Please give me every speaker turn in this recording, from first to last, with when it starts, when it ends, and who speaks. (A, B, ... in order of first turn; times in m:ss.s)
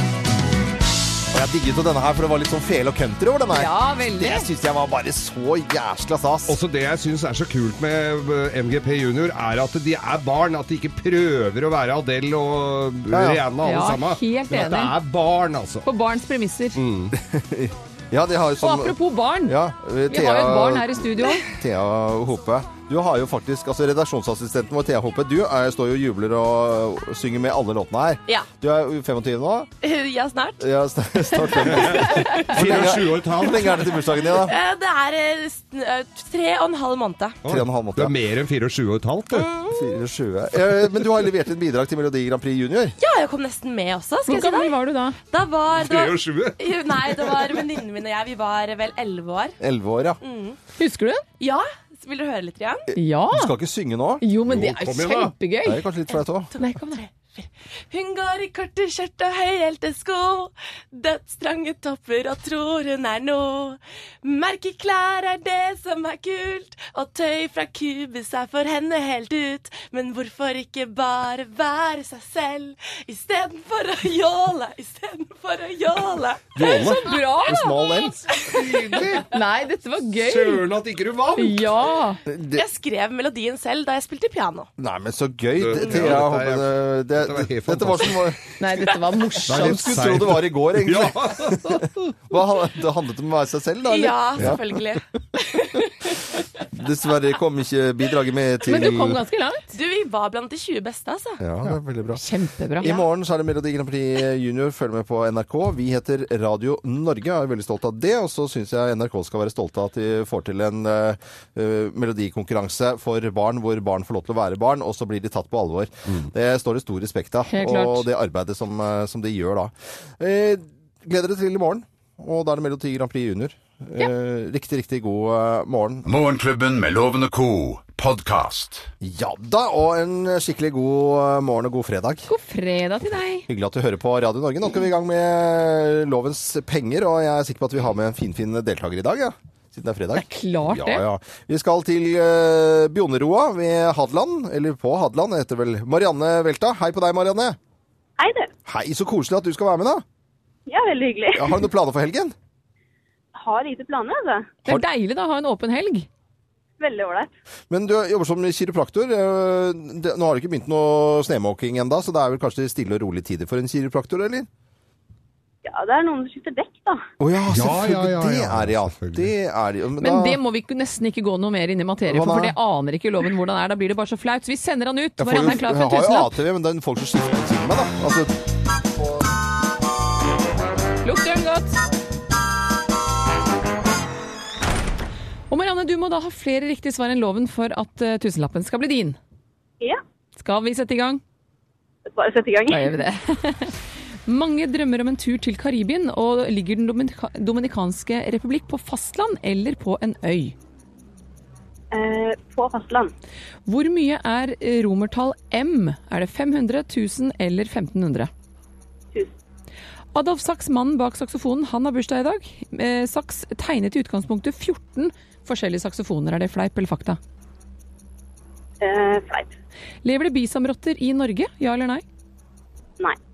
0:01.3-0:06.6 A
0:03.5-0:04.5 B
0:06.5-0:15.8 C
0:13.1-0:13.4 A
0:13.6-0:15.0 B
0:15.8-0:16.8 B
0:16.8-0:17.1 C
0:17.2-0:29.7 A
0:18.6-0:19.6 B
0:20.1-0:21.4 B
0:29.8-0:30.6 D
0:30.6-0:34.5 A
0:31.5-0:32.9 D
0:31.7-0:33.9 C
0:34.2-0:37.4 D
0:37.4-0:39.5 C
0:37.5-0:38.1 A
0:39.5-0:39.8 D
0:39.6-0:42.9 A
0:43.0-0:44.7 D
0:44.2-0:45.2 B
0:45.3-0:49.6 D
0:45.7-0:46.6 C
0:49.6-0:50.2 A
0:50.2-0:50.6 D
0:50.8-0:51.2 B
0:51.4-0:52.9 D
0:52.9-0:53.5 B
0:53.3-0:54.2 A
0:54.2-0:55.8 B
0:54.5-0:55.3 C
0:55.6-0:56.5 A
0:56.5-1:17.1 D
0:56.6-0:56.9 B
1:16.5-1:18.2 A
1:16.7-1:17.6 B
1:18.4-1:19.4 C
1:19.3-1:20.6 B
1:20.2-1:21.7 C
1:21.4-1:22.2 B
1:22.3-1:22.6 A
1:22.5-1:24.7 D
1:24.8-1:28.4 A
1:25.6-1:28.4 C
1:28.6-1:30.0 B
1:29.5-1:32.1 C
1:29.5-1:35.0 A
1:33.9-1:35.8 D
1:36.7-1:39.2 A
1:38.7-1:39.7 B
1:39.7-1:41.4 D
1:41.4-1:42.2 A
1:42.2-1:42.9 B
1:42.8-2:06.1 A
1:57.5-1:58.1 B
2:06.0-2:08.9 E
2:09.0-2:12.3 A
2:12.3-2:13.4 B
2:13.5-2:27.6 A
2:20.1-2:21.0 B
2:28.2-2:28.5 F
2:28.6-2:30.0 A
2:30.7-2:31.6 F
2:31.3-2:32.3 A
2:33.4-2:34.5 F
2:34.6-2:36.1 B
2:36.8-2:37.3 F
2:37.7-2:44.5 A
2:45.6-2:47.0 F
2:47.2-2:50.4 A
2:47.5-2:49.3 C
2:50.0-2:56.3 B
2:52.1-2:52.5 A
2:55.2-2:58.3 A
3:01.0-3:01.8 B
3:05.5-3:09.2 B
3:10.4-3:11.2 B
3:12.1-3:13.0 F
3:12.7-3:13.8 B
3:14.3-3:20.5 B
3:21.9-3:23.1 F
3:23.7-3:28.3 B
3:30.1-3:37.2 B
3:38.8-3:39.5 F
3:40.0-3:42.0 B